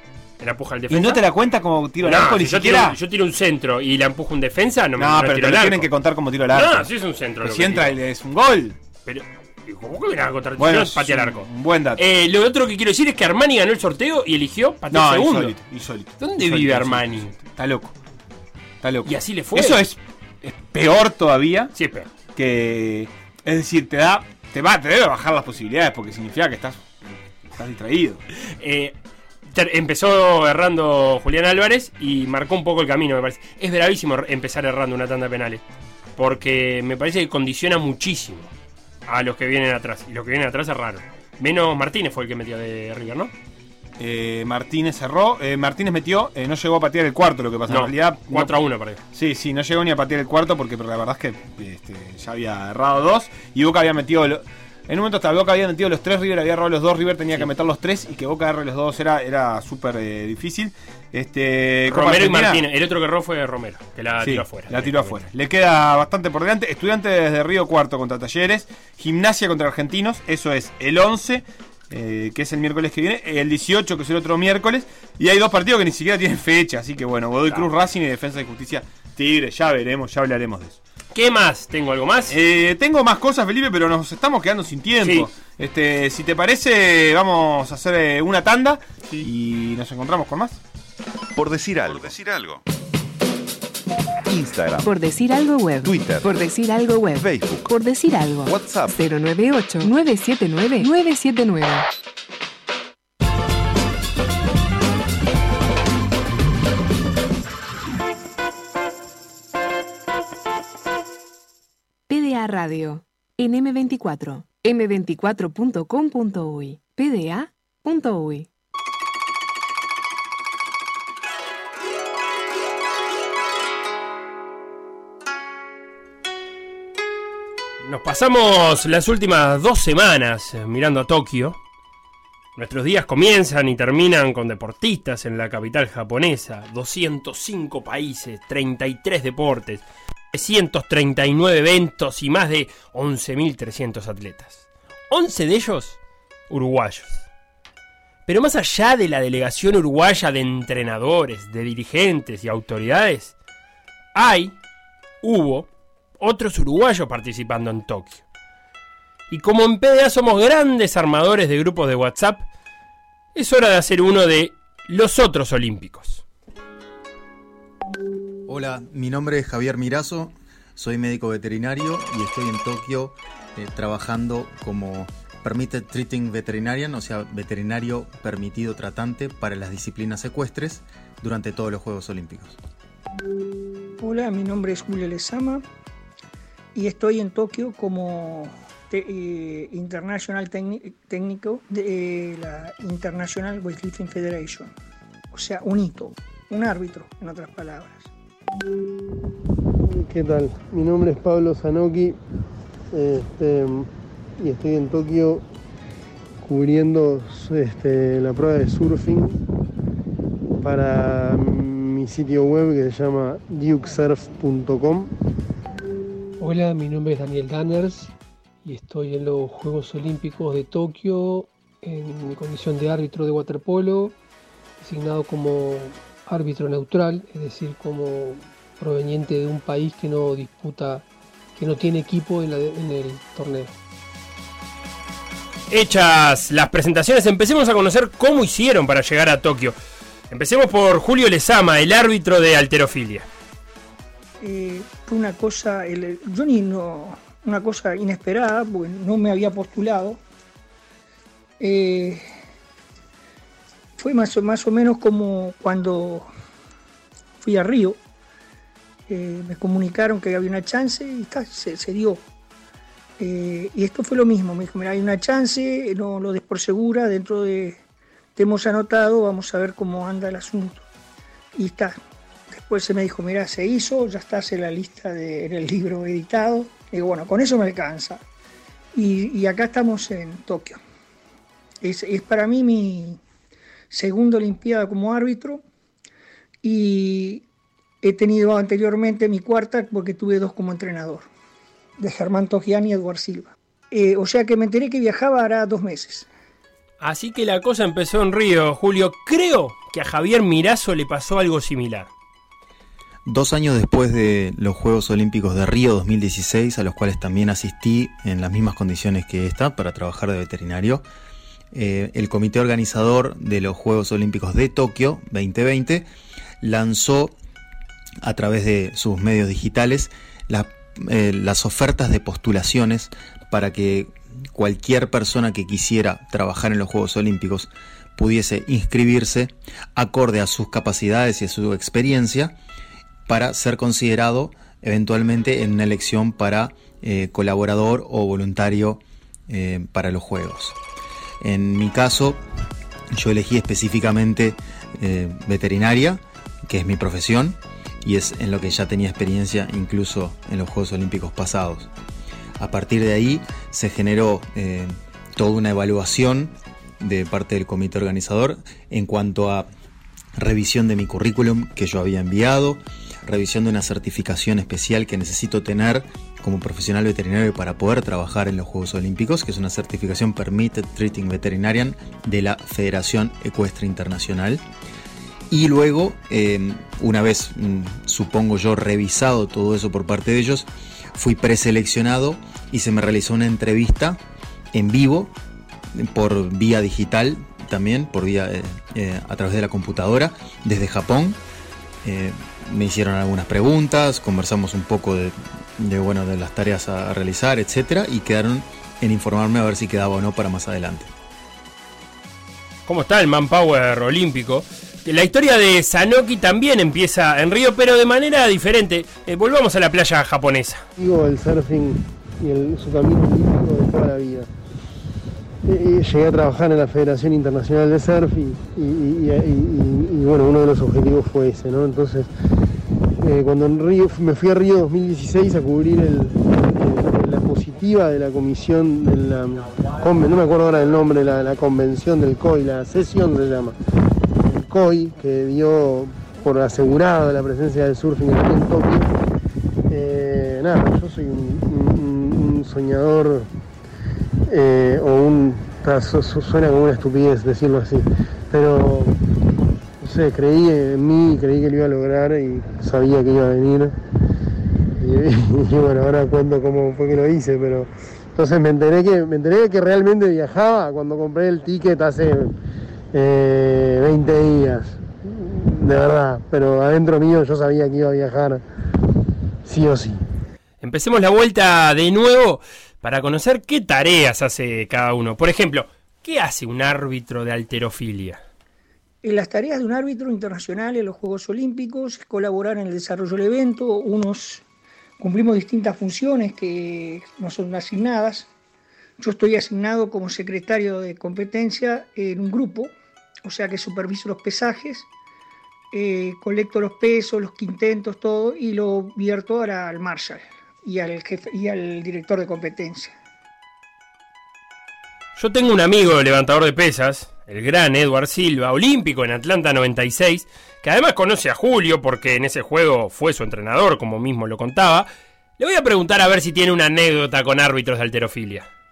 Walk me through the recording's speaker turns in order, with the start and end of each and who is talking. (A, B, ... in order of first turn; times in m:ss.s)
0:00.4-0:01.2 A
0:00.9-0:03.0 B
0:02.0-0:05.9 A
0:05.0-0:06.9 B
0:06.5-0:08.0 A
0:07.4-0:08.8 B
0:09.0-0:15.6 A
0:10.6-0:12.0 B
0:14.9-0:17.9 B
0:16.2-0:17.3 A
0:18.8-0:21.7 B
0:19.0-0:19.9 A
0:21.7-0:22.1 A
0:22.3-0:28.2 B
0:28.4-0:28.9 A
0:29.5-0:35.6 A
0:36.2-0:38.5 A
0:39.1-0:43.3 A
0:44.0-0:48.5 B
0:47.7-0:49.0 A
0:49.1-1:02.6 B
1:01.9-1:05.2 A
1:04.2-1:20.8 B
1:21.1-1:22.4 A
1:22.3-1:30.6 B
1:25.0-1:25.3 A
1:31.4-1:32.6 C
1:34.3-1:34.9 C
1:34.8-1:41.9 D
1:35.8-1:36.4 C
1:37.2-1:37.7 C
1:38.4-1:39.0 C
1:52.1-1:58.5 D
2:07.8-2:11.6 A
2:12.6-2:26.0 A
2:26.5-2:27.2 A
2:28.3-2:33.3 A
2:34.1-2:34.6 A
2:35.2-2:35.7 A
2:36.2-2:38.2 A
2:39.3-2:42.5 A
2:43.3-2:46.2 A
2:48.5-3:02.6 E
3:04.0-3:05.6 F
3:06.7-3:14.7 F
3:15.3-3:18.1 F
3:19.8-3:22.2 G
3:22.9-3:25.4 G
3:26.4-3:29.4 G
3:30.6-3:35.1 G
3:36.4-3:38.1 H
3:38.6-3:44.2 H
3:44.8-3:53.7 H
3:55.7-3:59.8 A
4:00.3-4:03.3 A
4:04.4-4:10.2 F
4:11.6-4:12.3 F
4:14.0-4:16.3 F
4:17.4-4:18.0 F
4:19.1-4:22.2 F
4:23.2-4:27.8 F
4:28.4-4:30.9 F
4:31.6-4:32.0 F
4:32.5-4:38.2 F
4:38.9-4:40.8 F
4:41.8-4:43.2 F
4:43.9-4:45.6 F
4:46.6-4:47.4 F
4:48.0-4:51.3 F
4:52.0-4:56.3 F
4:57.0-5:02.1 A
5:03.3-5:11.0 E
5:11.7-5:16.1 E
5:16.6-5:17.3 E
5:18.2-5:32.6 E
5:33.3-5:40.8 E
5:41.4-5:42.4 E
5:43.1-5:51.9 E
5:52.6-5:59.7 E
6:00.4-6:14.6 E
6:15.5-6:24.2 E
6:24.7-6:25.3 E
6:25.9-6:31.4 E
6:32.0-6:41.1 E
6:42.9-6:50.8 A
6:51.0-6:54.5 G
6:55.6-7:02.3 G
7:03.2-7:13.8 G
7:14.4-7:19.1 G
7:19.9-7:23.5 G
7:24.5-7:29.2 G
7:30.0-7:34.0 G
7:35.0-7:42.6 G
7:43.1-7:48.6 G
7:49.6-7:50.2 G
7:50.8-7:58.4 A
7:59.2-8:04.6 F
8:05.2-8:08.5 F
8:09.2-8:15.1 F
8:15.9-8:23.1 F
8:25.4-8:35.1 A
8:35.6-8:38.7 A